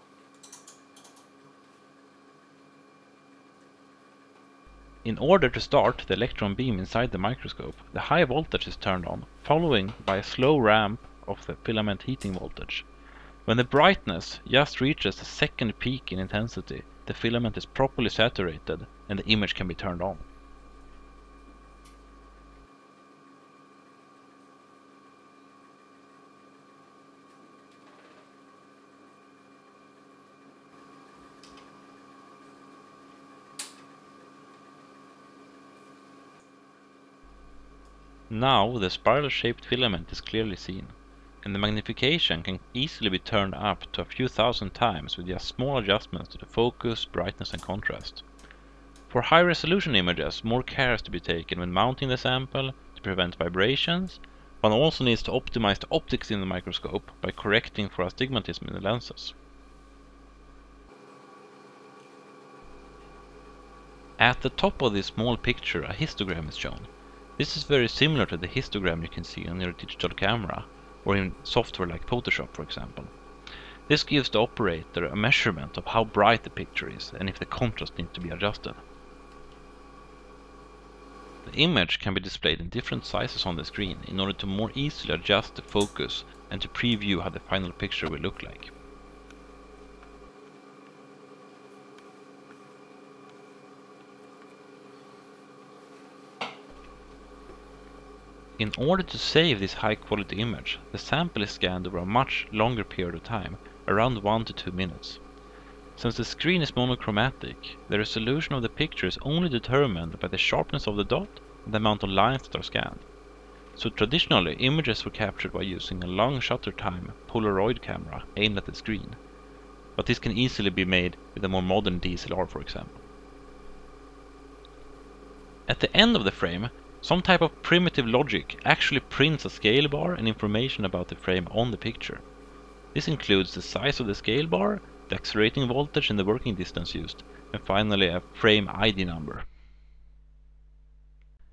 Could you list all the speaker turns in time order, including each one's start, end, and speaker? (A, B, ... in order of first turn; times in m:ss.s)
0:05.0-0:12.9 A
0:13.5-0:20.2 A
0:38.3-0:48.2 A
0:49.1-0:59.4 A
1:04.2-1:13.1 A
1:13.9-1:18.8 A
1:21.5-1:28.7 A
1:38.6-1:45.2 A
1:46.0-1:53.1 A
1:53.8-1:59.2 A
2:00.0-2:03.0 A
2:05.7-2:12.2 A
2:12.9-2:19.4 A